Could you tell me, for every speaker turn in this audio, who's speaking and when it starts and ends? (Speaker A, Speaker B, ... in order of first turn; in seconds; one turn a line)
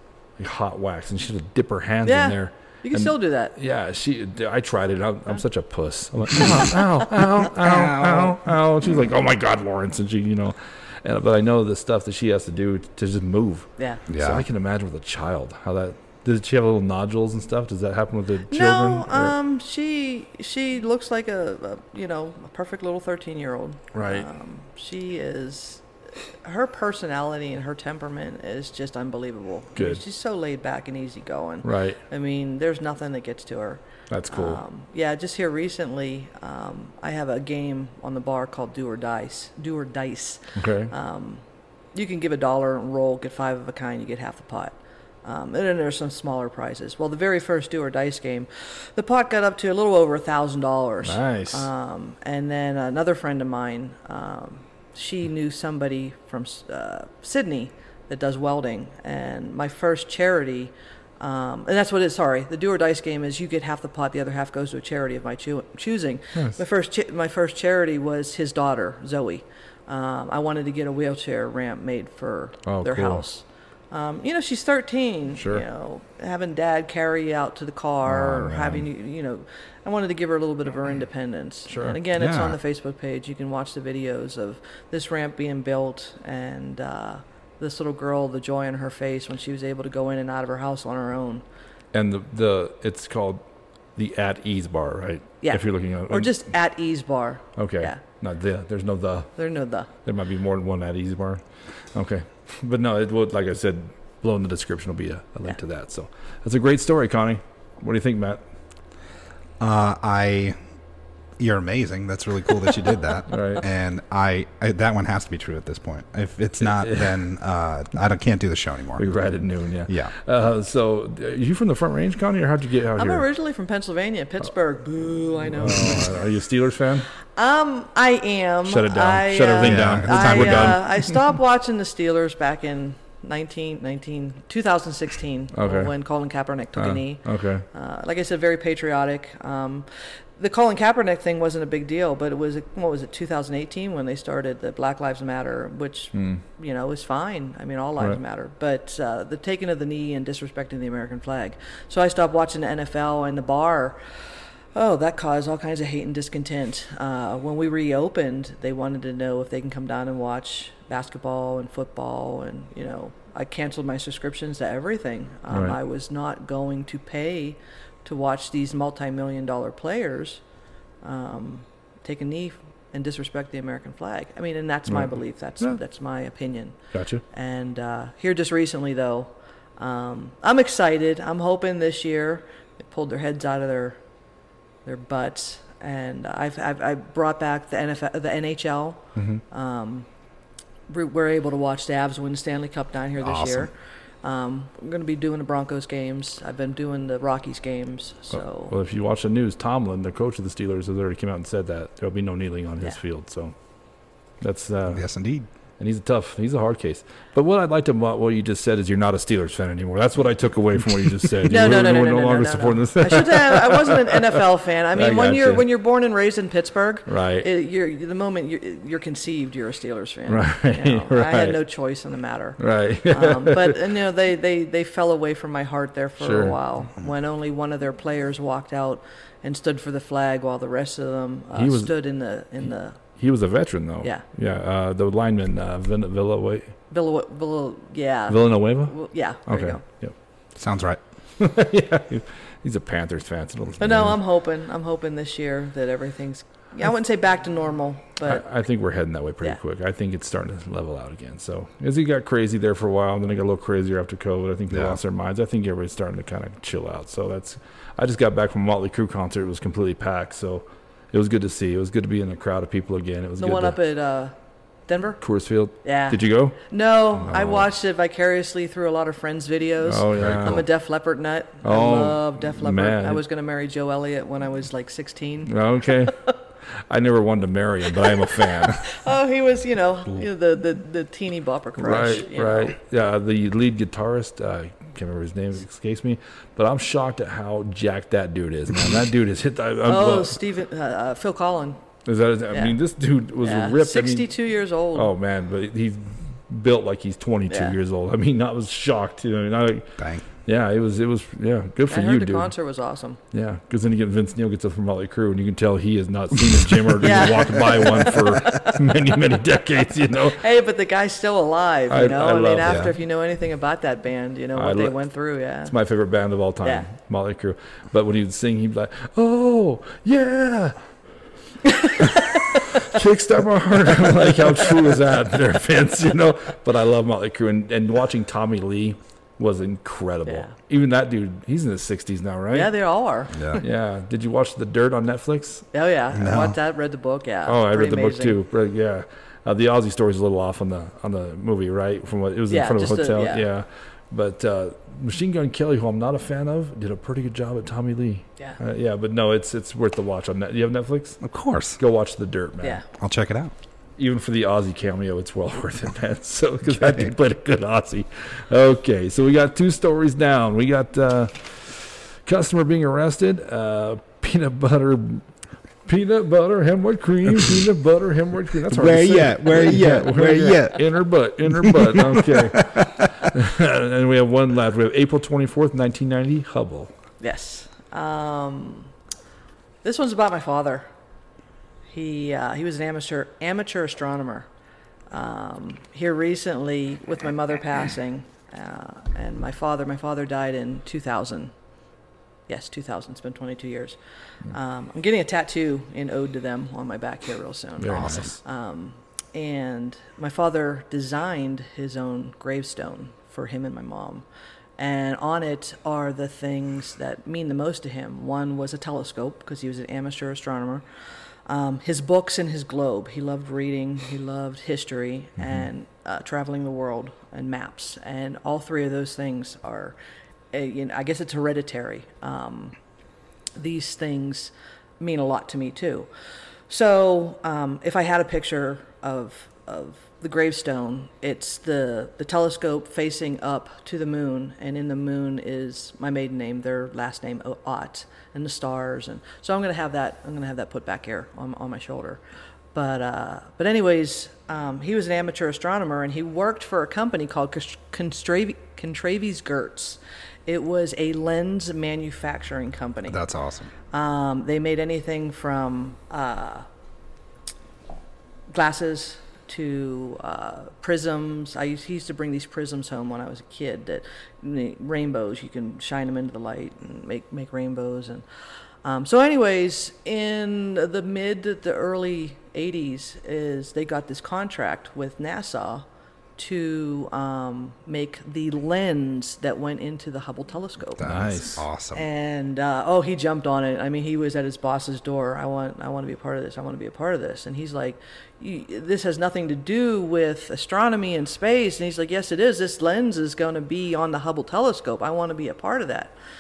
Speaker A: 0.4-19.4
Speaker B: 2.0-3.5
Speaker C: 7.6-8.4
Speaker C: 14.1-14.4
Speaker B: 18.5-25.8
Speaker A: 23.9-24.2
Speaker B: 26.4-41.4
Speaker A: 31.6-32.0
Speaker A: 34.1-34.6
Speaker A: 40.6-40.9
Speaker B: 42.0-91.4
Speaker A: 51.0-51.7
Speaker A: 72.7-73.2
Speaker A: 75.4-75.6
Speaker A: 78.4-78.7
Speaker A: 81.7-82.0
Speaker C: 82.2-82.6
Speaker A: 91.9-93.4
Speaker A: 94.0-96.4
Speaker B: 95.4-98.0
Speaker A: 97.6-99.3
Speaker B: 99.4-99.9
Speaker A: 100.0-101.4
Speaker A: 101.9-108.4
Speaker C: 109.6-110.6
Speaker C: 111.4-119.0
Speaker A: 113.3-113.7
Speaker A: 116.6-117.2
Speaker A: 119.0-123.2
Speaker B: 123.0-126.2
Speaker A: 125.5-127.1
Speaker B: 127.3-154.0
Speaker A: 128.7-131.2
Speaker C: 129.6-130.8
Speaker A: 135.5-135.9
Speaker A: 136.8-137.7
Speaker A: 146.1-146.4
Speaker B: 154.8-170.4
Speaker B: 171.0-176.8
Speaker A: 174.9-175.8
Speaker A: 176.9-177.2
Speaker B: 177.3-184.0
Speaker B: 184.9-190.1
Speaker A: 189.2-189.4
Speaker B: 190.9-193.7
Speaker C: 193.2-193.7
Speaker B: 194.2-198.7
Speaker A: 198.7-203.5
Speaker A: 204.4-205.1
Speaker C: 204.9-205.5
Speaker A: 205.8-214.4
Speaker B: 211.5-233.0
Speaker A: 214.9-215.7
Speaker A: 217.1-217.5
Speaker A: 220.3-221.6
Speaker A: 222.6-223.8
Speaker A: 226.2-226.6
Speaker A: 231.6-231.9
Speaker A: 233.2-236.8
Speaker B: 236.9-239.8
Speaker A: 238.3-239.0
Speaker A: 239.5-240.1
Speaker C: 240.6-241.0
Speaker A: 241.4-244.2
Speaker B: 243.8-248.4
Speaker A: 248.3-263.8
Speaker C: 254.7-255.0
Speaker B: 263.4-264.3
Speaker B: 264.9-265.2
Speaker A: 265.2-266.6
Speaker B: 265.8-275.5
Speaker A: 267.2-267.7
Speaker A: 269.8-270.6
Speaker C: 270.2-270.6
Speaker A: 271.6-273.2
Speaker A: 275.5-276.3
Speaker A: 276.9-278.9
Speaker B: 278.6-282.8
Speaker A: 281.8-290.4
Speaker B: 289.9-291.8
Speaker A: 292.1-294.3
Speaker B: 292.5-292.8
Speaker B: 293.4-295.1
Speaker A: 294.9-302.5
Speaker B: 297.5-297.8
Speaker C: 300.0-300.3
Speaker B: 301.9-303.2
Speaker A: 303.3-310.4
Speaker B: 307.0-308.8
Speaker B: 310.3-315.7
Speaker A: 311.9-312.8
Speaker A: 314.6-315.0
Speaker A: 315.7-320.8
Speaker B: 321.7-322.6
Speaker A: 321.9-332.7
Speaker B: 330.3-330.5
Speaker B: 332.5-333.6
Speaker C: 333.4-333.6
Speaker A: 333.6-335.7
Speaker B: 335.7-338.4
Speaker C: 336.1-336.5
Speaker A: 337.5-351.2
Speaker B: 342.5-343.4
Speaker C: 351.2-351.8
Speaker A: 351.8-352.8
Speaker C: 352.9-353.5
Speaker A: 354.0-365.2
Speaker C: 356.8-357.1
Speaker A: 365.9-376.9
Speaker C: 368.7-370.8
Speaker C: 371.5-373.1
Speaker B: 377.2-378.9
Speaker B: 379.8-380.9
Speaker B: 381.9-384.5
Speaker B: 385.1-391.5
Speaker B: 392.5-394.0
Speaker B: 394.5-404.2
Speaker A: 397.8-398.4
Speaker C: 397.9-398.3
Speaker B: 404.8-410.8
Speaker B: 411.5-420.0
Speaker B: 420.5-422.8
Speaker B: 423.6-426.1
Speaker B: 426.7-442.2
Speaker B: 442.7-453.2
Speaker C: 453.1-453.7
Speaker B: 453.9-456.7
Speaker B: 458.5-468.2
Speaker B: 468.8-475.9
Speaker B: 476.4-481.1
Speaker C: 481.0-482.0
Speaker A: 481.0-481.6
Speaker B: 481.9-496.1